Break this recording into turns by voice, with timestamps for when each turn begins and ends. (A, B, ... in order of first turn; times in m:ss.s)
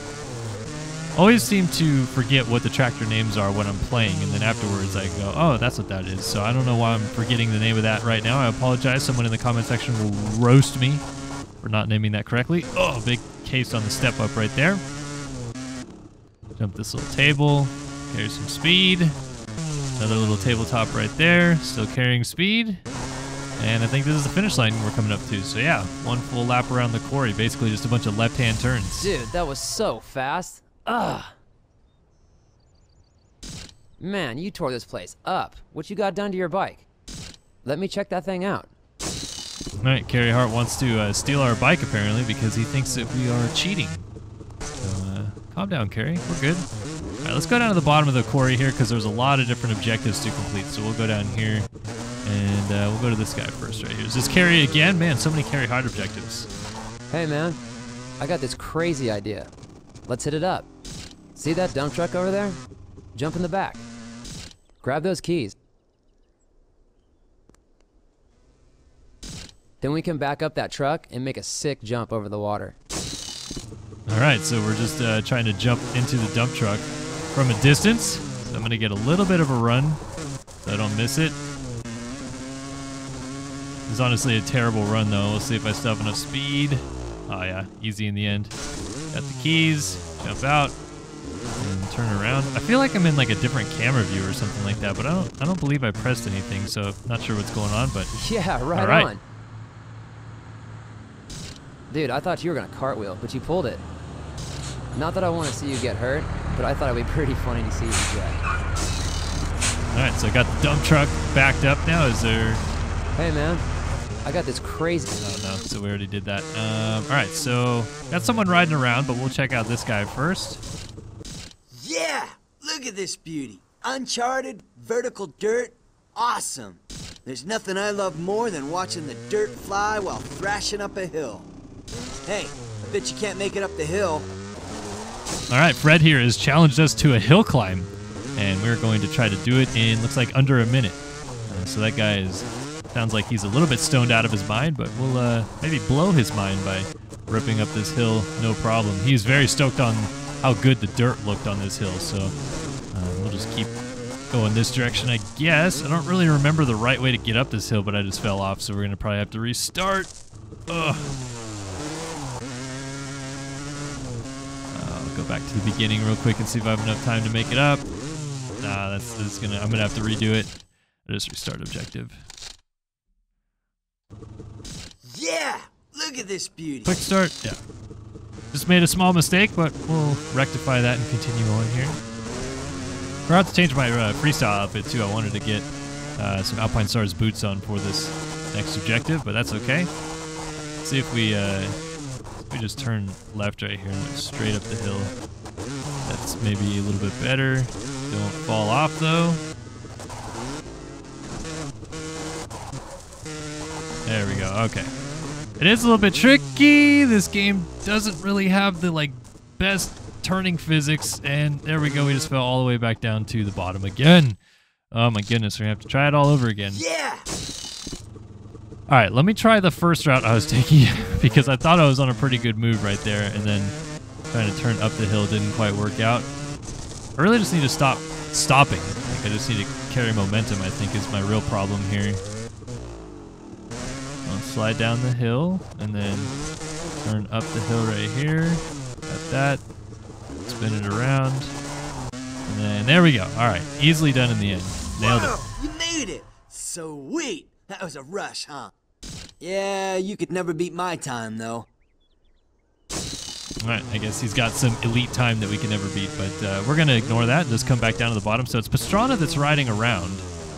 0:01.1-0:11.0 A
0:11.6-0:14.8 A
0:16.6-0:19.2 A
0:20.0-0:22.8 A
0:23.6-0:29.1 A
0:29.0-0:31.3 B
0:34.0-0:36.8 B
0:37.6-0:38.7 B
0:39.8-0:44.1 A
0:44.8-0:46.6 A
0:47.2-0:51.7 A
0:52.2-0:56.5 A
0:57.1-0:57.6 B
0:58.2-0:59.5 B
1:00.1-1:00.7 B
1:01.3-1:02.6 B
1:03.1-1:03.8 B
1:04.8-1:05.5 B
1:09.8-1:12.8 B
1:14.1-1:20.0 A
1:20.6-1:21.4 A
1:23.9-1:28.5 A
1:29.1-1:30.8 A
1:31.6-1:38.1 A
1:38.1-1:39.2 B
1:38.7-1:39.1 A
1:41.9-1:43.8 B
1:44.9-1:48.4 B
1:49.9-1:52.6 A
1:53.2-1:53.6 B
1:54.2-1:55.1 B
1:55.2-2:00.6 A
2:01.7-2:11.5 C
2:12.3-2:14.3 C
2:15.5-2:32.3 A
2:32.9-2:33.7 A
2:34.3-2:40.1 A
2:40.7-2:41.1 A
2:44.7-2:47.8 A
2:48.6-2:50.5 A
2:51.1-2:52.2 A
2:55.1-2:56.9 C
2:56.8-2:57.6 A
2:58.5-3:02.0 A
3:03.3-3:09.9 A
3:10.8-3:11.8 A
3:12.4-3:15.1 A
3:16.0-3:19.4 A
3:24.1-3:24.9 A
3:25.6-3:34.4 A
3:34.9-3:36.8 A
3:36.7-3:37.2 C
3:38.9-3:43.8 A
3:44.3-3:46.3 A
3:47.2-3:52.2 A
3:54.2-3:56.3 A
3:57.0-3:59.6 A
4:00.4-4:01.5 A
4:02.4-4:05.4 A
4:05.0-4:08.7 C
4:09.4-4:11.7 C
4:13.6-4:20.2 A